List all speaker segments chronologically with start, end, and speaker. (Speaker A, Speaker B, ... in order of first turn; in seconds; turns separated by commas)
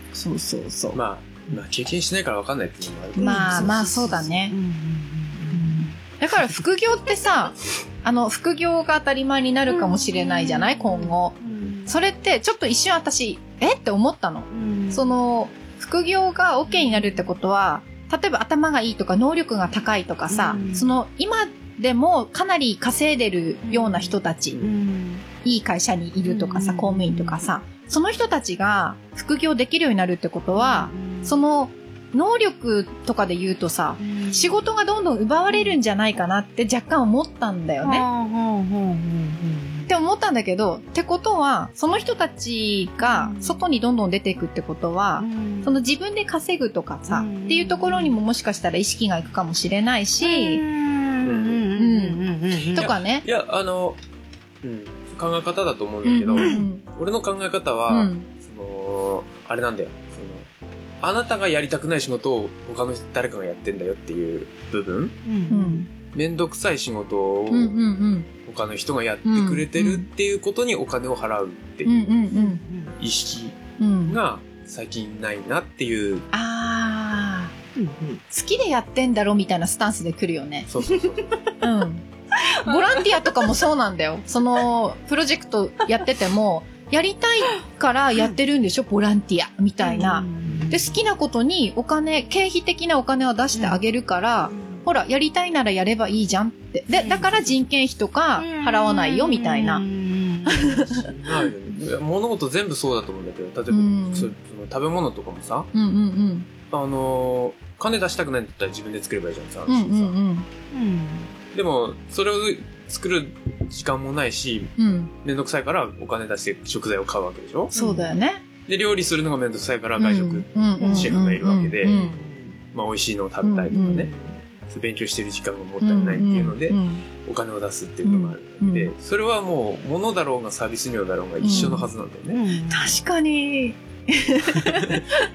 Speaker A: 0.1-1.0, Speaker B: 0.9-3.8, Speaker C: 3.2-5.9, Speaker A: 3.2-4.6, Speaker A: 5.5-24.6, Speaker C: 9.7-11.9, Speaker C: 14.5-15.2, Speaker C: 16.7-17.3, Speaker C: 20.3-20.9, Speaker C: 23.6-25.3, Speaker A: 25.4-38.1, Speaker C: 26.2-27.5, Speaker C: 30.5-31.4, Speaker C: 34.0-34.6, Speaker C: 35.5-35.8, Speaker C: 37.8-39.9, Speaker A: 39.9-50.6, Speaker C: 43.0-43.6, Speaker C: 45.2-45.8, Speaker C: 47.1-48.2, Speaker C: 50.2-52.9, Speaker B: 51.2-51.7, Speaker A: 51.8-53.2, Speaker B: 52.6-54.0, Speaker B: 54.6-60.5, Speaker A: 56.0-56.8, Speaker C: 56.4-56.6, Speaker A: 57.9-58.3, Speaker B: 61.0-65.2, Speaker C: 65.2-65.9, Speaker A: 65.5-65.9, Speaker B: 66.1-67.7, Speaker A: 67.5-68.3, Speaker B: 68.5-71.9, Speaker A: 69.2-70.1, Speaker A: 71.8-72.6, Speaker C: 72.3-73.0, Speaker B: 73.0-76.3, Speaker A: 73.8-74.2, Speaker A: 76.3-77.5, Speaker C: 77.8-78.2, Speaker A: 78.3-80.7, Speaker B: 80.7-81.3, Speaker C: 80.9-81.5, Speaker A: 81.6-99.8, Speaker C: 82.4-83.2, Speaker C: 89.8-91.0, Speaker C: 93.5-93.8, Speaker C: 94.5-94.8, Speaker C: 96.9-97.5, Speaker C: 98.4-101.5, Speaker A: 100.5-101.1, Speaker B: 101.1-105.7, Speaker A: 103.7-104.3, Speaker A: 105.7-106.5, Speaker B: 106.7-110.1, Speaker A: 109.7-110.5, Speaker C: 110.7-111.3, Speaker B: 111.5-117.7, Speaker A: 114.8-115.1, Speaker A: 117.7-118.4, Speaker C: 117.8-118.2, Speaker B: 118.7-122.0, Speaker A: 120.0-122.2, Speaker C: 120.8-121.1, Speaker C: 121.8-122.6, Speaker B: 122.7-132.4, Speaker A: 123.4-124.1, Speaker C: 123.7-124.4, Speaker A: 125.8-127.1, Speaker A: 128.0-128.9, Speaker A: 131.4-131.9, Speaker C: 131.5-133.0, Speaker A: 132.7-135.2, Speaker B: 134.8-135.0